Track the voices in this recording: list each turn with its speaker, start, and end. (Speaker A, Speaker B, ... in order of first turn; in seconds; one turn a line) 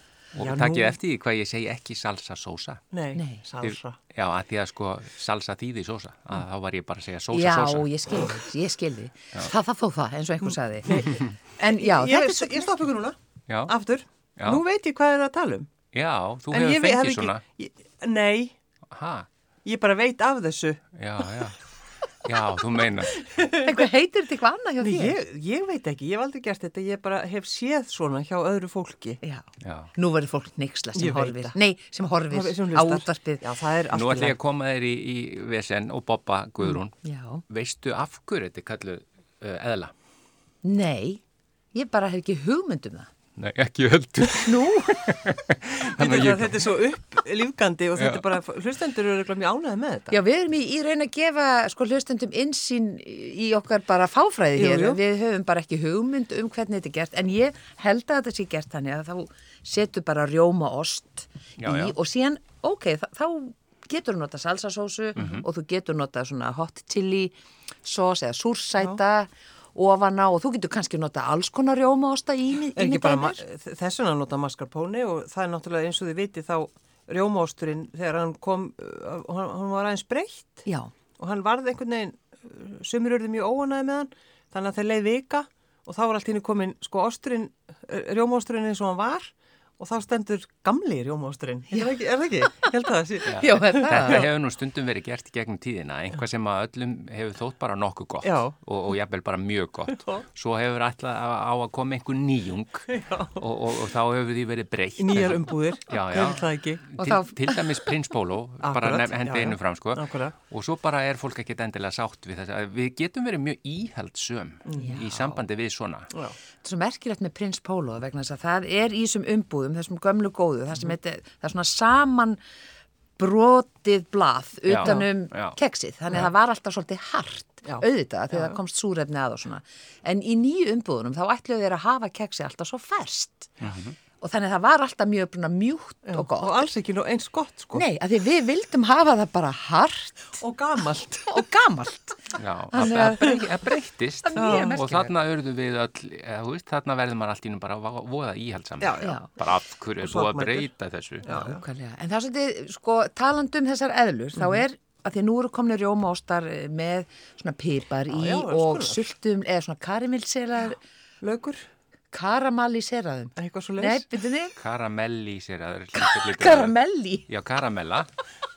Speaker A: 0.3-2.8
Speaker B: 0.4-1.0
Speaker B: 2.9-4.0
Speaker C: 3.1-3.4
Speaker A: 3.6-7.9
Speaker C: 7.3-12.8
Speaker B: 10.8-15.7
Speaker A: 13.5-13.7
Speaker A: 15.9-17.4
Speaker B: 16.5-18.5
Speaker A: 18.9-19.3
Speaker B: 19.6-20.9
Speaker A: 20.9-21.6
Speaker A: 22.2-23.2
Speaker B: 23.2-23.7
Speaker C: 23.5-25.2
Speaker B: 24.8-29.2
Speaker C: 29.2-33.4
Speaker A: 29.6-29.9
Speaker B: 30.9-31.5
Speaker B: 32.3-34.4
Speaker A: 33.9-37.0
Speaker C: 36.6-37.4
Speaker A: 37.5-39.9
Speaker C: 40.6-41.2
Speaker C: 41.7-43.1
Speaker A: 43.4-46.7
Speaker C: 44.4-45.1
Speaker B: 45.9-50.2
Speaker A: 48.0-48.3
Speaker C: 50.1-73.4
Speaker B: 54.5-55.0
Speaker A: 61.6-62.0
Speaker A: 65.2-65.5
Speaker B: 72.7-80.7
Speaker C: 80.7-80.9
Speaker B: 81.2-94.2
Speaker C: 91.7-92.7
Speaker C: 93.2-94.3
Speaker A: 93.2-116.1
Speaker B: 98.2-98.6
Speaker B: 99.9-100.2
Speaker B: 102.9-103.4
Speaker B: 105.0-106.9
Speaker C: 107.0-107.8
Speaker B: 108.6-110.4
Speaker B: 114.7-115.0
Speaker C: 114.8-115.4
Speaker C: 116.6-122.4
Speaker C: 123.2-133.6
Speaker A: 124.7-125.6
Speaker B: 127.6-128.6
Speaker A: 133.6-133.9
Speaker C: 134.2-136.6
Speaker B: 136.1-137.8
Speaker C: 137.7-140.4
Speaker B: 140.4-141.4
Speaker C: 141.3-145.1
Speaker A: 142.4-151.3
Speaker B: 144.3-144.8
Speaker B: 148.8-149.4
Speaker C: 149.0-149.3
Speaker B: 150.0-150.7
Speaker B: 151.2-151.6
Speaker C: 151.3-160.8
Speaker B: 154.3-154.6
Speaker B: 158.1-159.1
Speaker B: 161.2-161.7
Speaker C: 162.1-164.6
Speaker B: 163.4-164.1
Speaker A: 164.6-166.7
Speaker C: 165.9-167.3
Speaker A: 167.3-168.1